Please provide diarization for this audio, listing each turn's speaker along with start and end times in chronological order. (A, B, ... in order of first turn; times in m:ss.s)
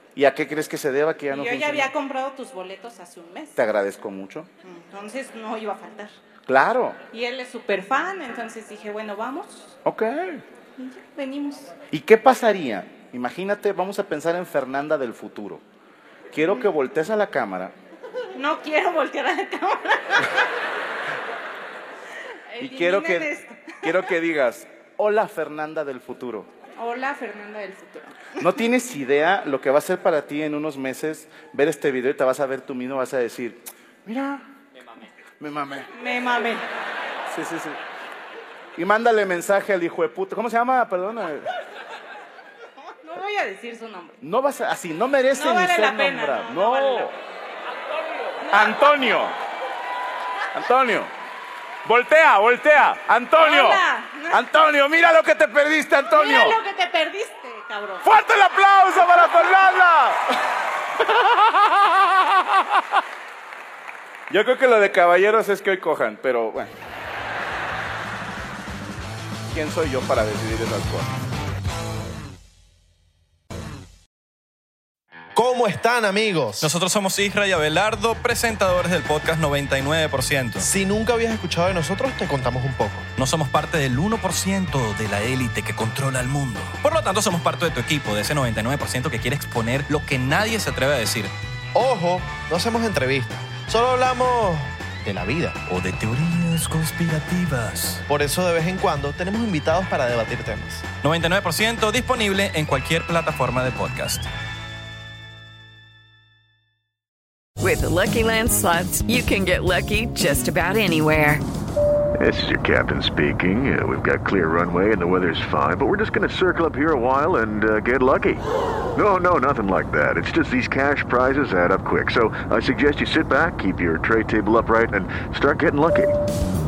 0:00.1-0:01.9 A
0:01.3-0:03.6 B
0:03.6-0:04.5 A
0:04.6-0:06.1 B
0:06.4-0:07.0 A
0:07.1-0:09.7 B
0:09.8-0:10.4 A
0:10.8-0:11.7 B
0:11.9-0:15.6 A
0:16.3-0:17.7 A
0:18.3-0:20.4 B
0:22.5-0:24.0 B
0:22.6-0:23.3 A
0:23.8-0:26.5 A
0:26.8-0:28.5 B
0:28.4-0:34.4 A
0:35.4-0:35.9 A
0:35.9-0:36.6 B
0:37.3-0:37.8 A
0:38.8-0:41.5 A
0:43.0-0:44.2 B
0:44.2-0:47.1 A
0:45.3-0:47.1 B
0:48.4-0:49.0 B
0:48.5-0:49.4 A
0:50.5-0:51.1 A
0:51.8-0:56.6 A
0:53.3-0:54.4 B
0:56.1-0:58.1 B
0:58.0-1:00.2 A
1:01.0-1:02.2 A
1:04.3-1:06.7 A
1:09.5-1:11.1 A
1:15.3-1:16.7 C
1:16.6-1:20.7 D
1:20.6-1:23.1 C
1:23.2-1:31.3 D
1:31.7-1:35.6 C
1:35.7-1:38.0 D
1:38.0-1:40.8 C
1:41.0-1:44.3 D
1:47.6-1:51.4 E
1:52.2-1:58.4 F
1:58.9-2:06.1 F